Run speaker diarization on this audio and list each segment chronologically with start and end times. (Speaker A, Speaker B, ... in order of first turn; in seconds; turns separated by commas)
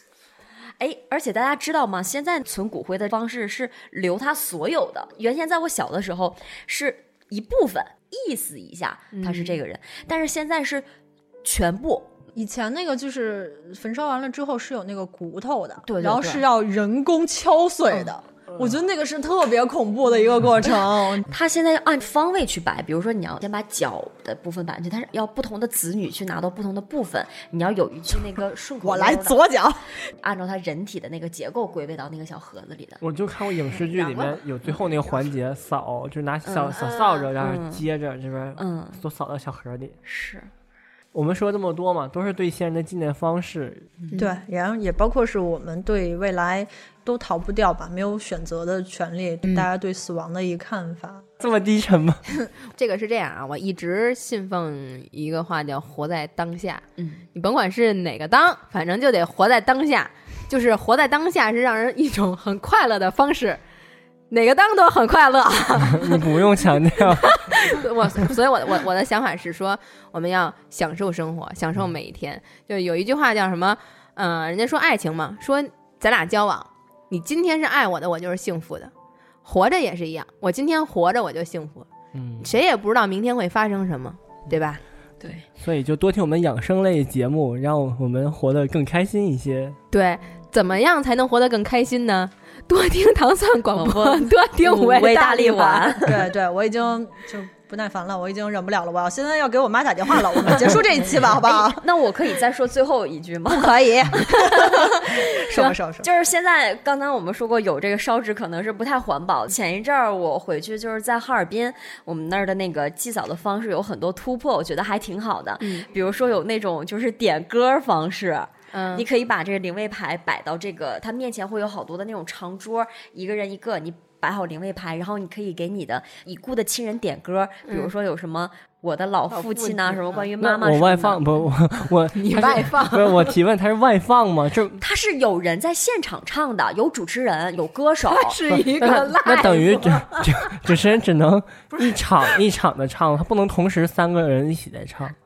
Speaker A: 0.8-10.9, Speaker B: 9.1-9.6, Speaker A: 11.4-12.2, Speaker C: 12.3-21.3, Speaker A: 15.8-16.4, Speaker A: 21.3-29.4, Speaker C: 28.8-29.8, Speaker A: 30.2-33.0, Speaker D: 33.0-40.0, Speaker B: 33.7-34.4, Speaker A: 36.5-37.8, Speaker B: 36.7-37.3, Speaker A: 38.6-39.0, Speaker A: 40.0-40.5, Speaker D: 41.1-43.9, Speaker B: 44.1-44.4, Speaker C: 44.2-51.3, Speaker D: 51.4-52.2, Speaker B: 52.7-63.6, Speaker A: 57.0-57.2, Speaker B: 64.3-66.7, Speaker D: 65.9-67.6, Speaker B: 67.2-78.9, Speaker B: 79.5-81.9, Speaker D: 82.1-82.5, Speaker B: 82.4-84.8, Speaker A: 85.2-85.5, Speaker D: 85.5-89.8, Speaker B: 89.9-96.1, Speaker A: 93.7-96.2, Speaker C: 96.0-101.8, Speaker A: 101.5-131.2, Speaker B: 103.7-104.1, Speaker C: 103.8-106.1, Speaker B: 115.6-115.9, Speaker B: 118.7-119.1, Speaker B: 129.3-130.3, Speaker D: 130.4-134.8, Speaker B: 132.2-133.4, Speaker A: 134.8-138.4, Speaker B: 138.1-140.3, Speaker D: 138.5-145.1